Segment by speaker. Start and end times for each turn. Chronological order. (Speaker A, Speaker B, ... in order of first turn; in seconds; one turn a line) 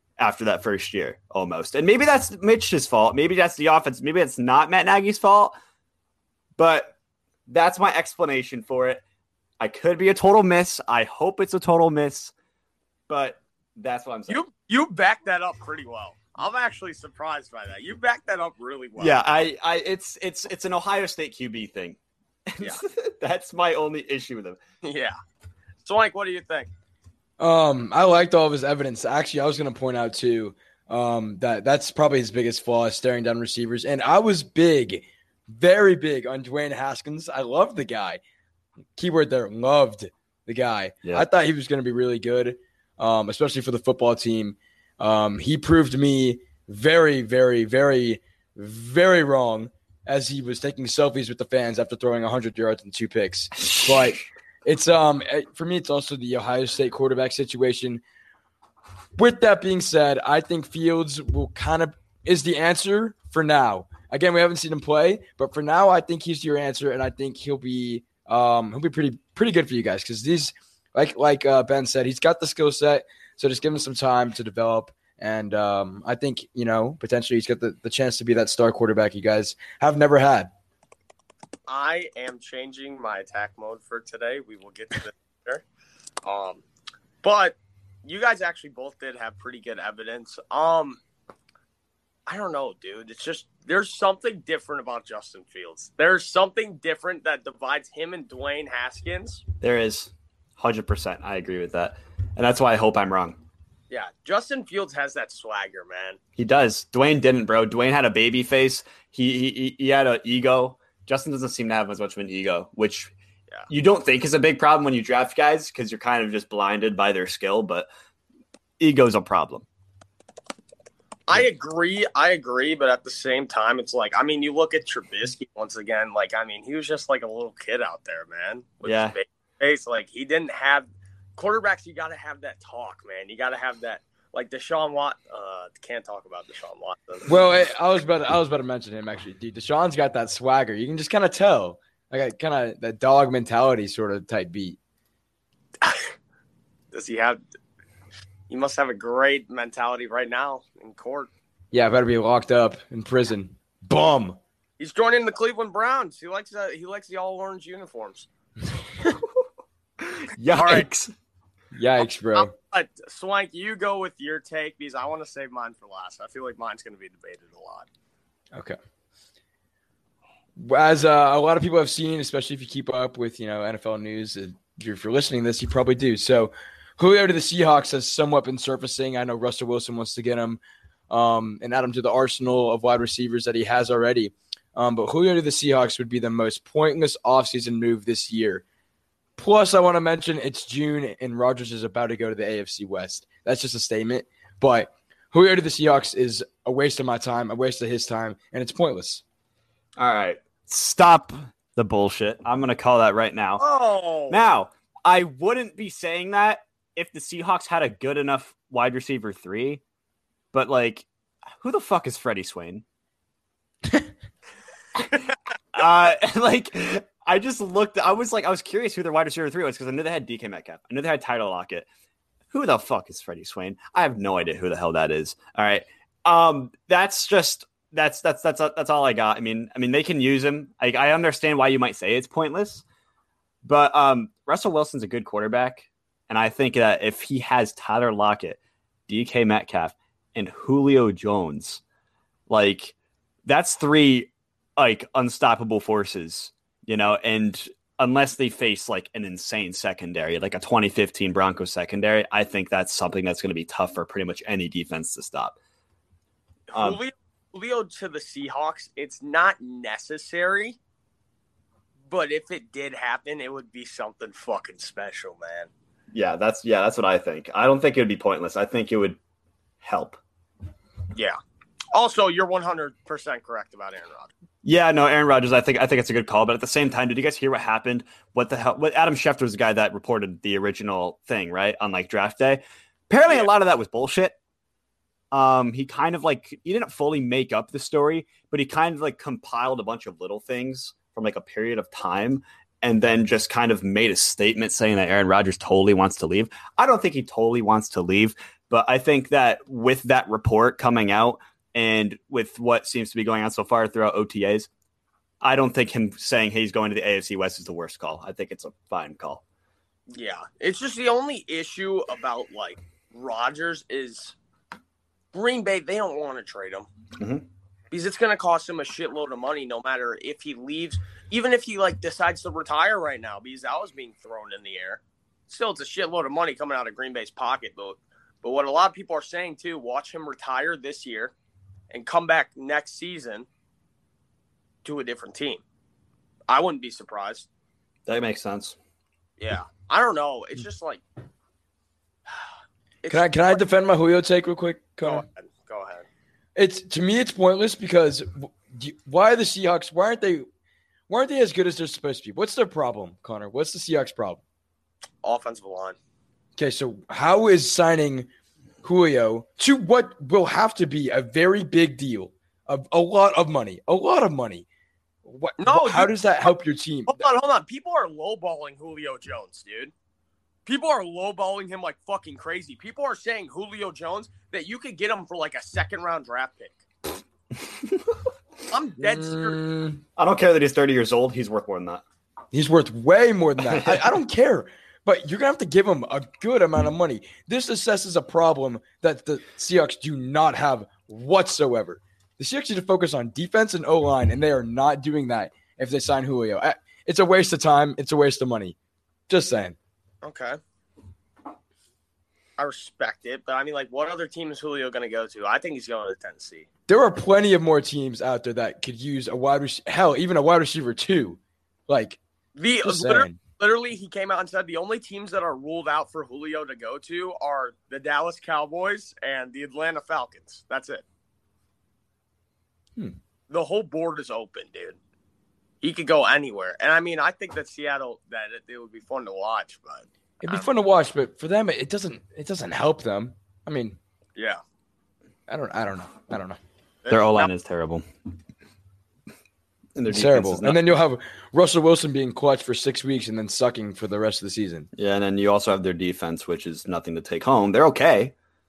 Speaker A: 0.2-5.5
Speaker A: 6.6-6.9
Speaker A: 7.5-9.0
Speaker A: 9.6-12.3
Speaker A: 13.1-14.4
Speaker B: 14.3-19.3
Speaker A: 19.0-24.6
Speaker B: 24.8-25.1
Speaker B: 25.8-26.7
Speaker C: 27.4-38.2
Speaker C: 39.0-58.0
Speaker A: 53.6-54.0
Speaker C: 59.1-80.5
Speaker B: 81.7-85.6
Speaker B: 86.2-86.6
Speaker B: 87.2-91.0
Speaker B: 92.3-99.4
Speaker A: 99.6-103.4
Speaker B: 103.9-106.2
Speaker A: 106.4-113.1
Speaker A: 113.7-117.9
Speaker A: 118.8-119.7
Speaker B: 121.3-137.3
Speaker A: 128.8-129.1
Speaker C: 137.3-144.8
Speaker B: 145.8-146.1
Speaker B: 146.9-147.4
Speaker B: 148.5-151.3
Speaker C: 151.7-154.4
Speaker B: 154.8-158.3
Speaker A: 160.2-161.1
Speaker B: 160.5-160.9
Speaker C: 161.7-162.5
Speaker B: 162.3-167.9
Speaker C: 170.6-188.6
Speaker C: 189.4-199.2
Speaker A: 200.0-203.6
Speaker B: 203.6-204.4
Speaker A: 204.3-209.8
Speaker A: 210.5-211.1
Speaker A: 211.6-212.8
Speaker A: 215.7-221.8
Speaker A: 222.5-232.8
Speaker A: 233.6-241.8
Speaker A: 242.5-242.9
Speaker A: 243.5-255.6
Speaker A: 256.7-257.0
Speaker B: 256.7-260.8
Speaker B: 262.1-265.7
Speaker A: 266.1-269.2
Speaker A: 269.8-270.2
Speaker B: 271.9-274.3
Speaker A: 274.6-284.4
Speaker A: 285.3-304.7
Speaker A: 305.4-309.4
Speaker B: 310.1-314.3
Speaker B: 315.3-316.9
Speaker A: 317.2-317.4
Speaker B: 317.9-331.3
Speaker B: 331.9-333.5
Speaker B: 334.8-335.6
Speaker B: 336.5-337.5
Speaker A: 338.1-338.8
Speaker B: 339.4-341.0
Speaker B: 343.0-343.6
Speaker C: 343.1-345.2
Speaker B: 345.0-346.1
Speaker C: 346.6-350.4
Speaker C: 351.1-354.4
Speaker B: 355.2-355.9
Speaker C: 356.6-358.3
Speaker C: 358.8-364.6
Speaker C: 365.2-367.2
Speaker B: 365.6-366.1
Speaker B: 367.1-369.9
Speaker B: 370.6-376.7
Speaker B: 378.7-379.6
Speaker C: 379.0-380.0
Speaker A: 380.2-382.0
Speaker C: 382.5-398.8
Speaker A: 383.7-384.0
Speaker C: 399.3-399.8
Speaker B: 400.2-400.6
Speaker B: 402.6-406.7
Speaker C: 406.9-412.2
Speaker B: 412.6-421.0
Speaker C: 412.8-413.4
Speaker B: 423.5-425.0
Speaker B: 425.8-430.6
Speaker C: 430.4-434.0
Speaker C: 435.5-436.6
Speaker B: 437.0-437.5
Speaker A: 437.1-438.0
Speaker A: 439.9-440.8
Speaker C: 440.1-444.9
Speaker A: 444.9-448.3